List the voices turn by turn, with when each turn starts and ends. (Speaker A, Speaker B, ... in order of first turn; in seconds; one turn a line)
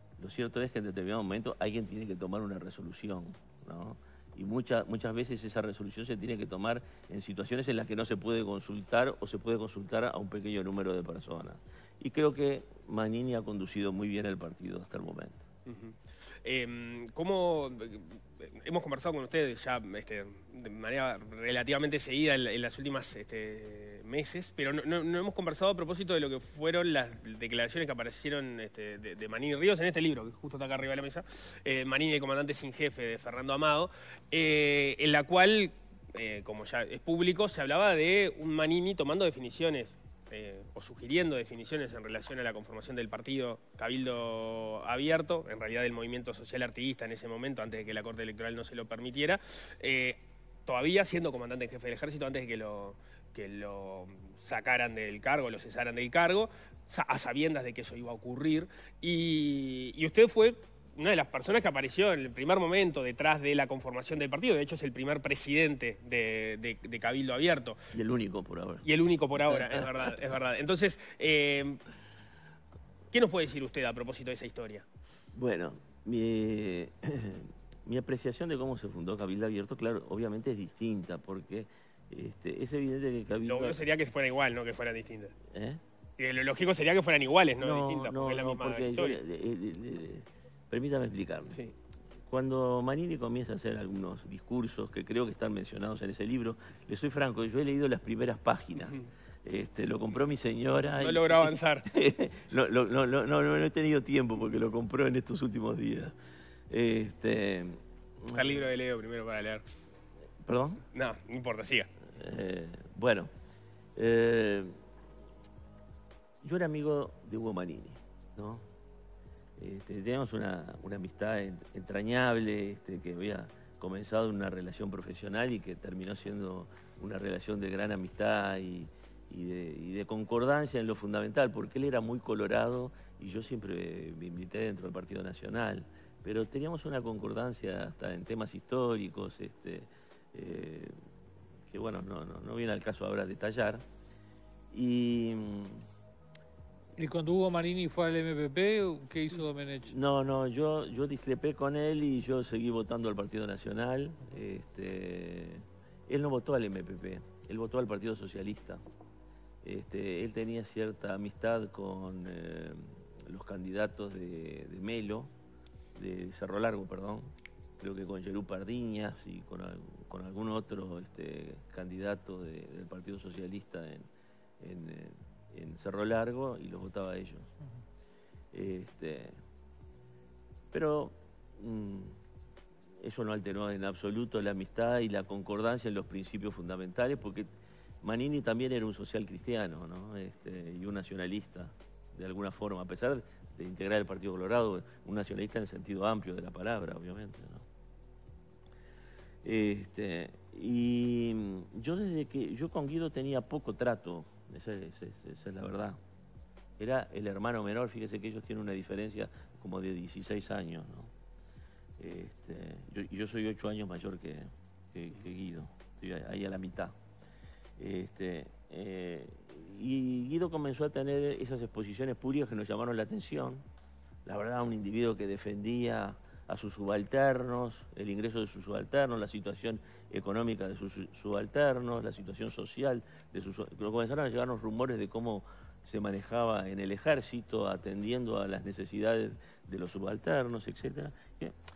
Speaker A: 0.2-15.4
Speaker B: 15.7-67.8
Speaker A: 67.9-68.9
Speaker B: 68.8-71.8
Speaker A: 69.4-69.9
Speaker B: 73.1-74.9
Speaker A: 75.3-83.8
Speaker B: 83.5-85.3
Speaker A: 85.5-85.8
Speaker B: 86.2-89.2
Speaker A: 87.6-91.6
Speaker A: 92.3-106.1
Speaker B: 101.0-101.9
Speaker A: 106.7-108.5
Speaker B: 108.3-109.6
Speaker A: 110.4-110.8
Speaker B: 110.9-111.9
Speaker A: 112.1-113.3
Speaker A: 114.0-114.7
Speaker A: 116.4-118.7
Speaker A: 119.6-140.9
Speaker A: 141.7-143.8
Speaker A: 144.7-145.8
Speaker C: 147.0-149.9
Speaker A: 149.9-158.8
Speaker A: 159.6-165.3
Speaker A: 165.9-174.1
Speaker A: 174.6-177.5
Speaker A: 178.5-179.4
Speaker A: 180.7-182.2
Speaker A: 183.0-187.5
Speaker A: 188.0-197.7
Speaker A: 199.4-206.0
Speaker A: 206.8-211.1
Speaker A: 212.0-216.9
Speaker A: 217.8-223.6
Speaker A: 224.2-241.6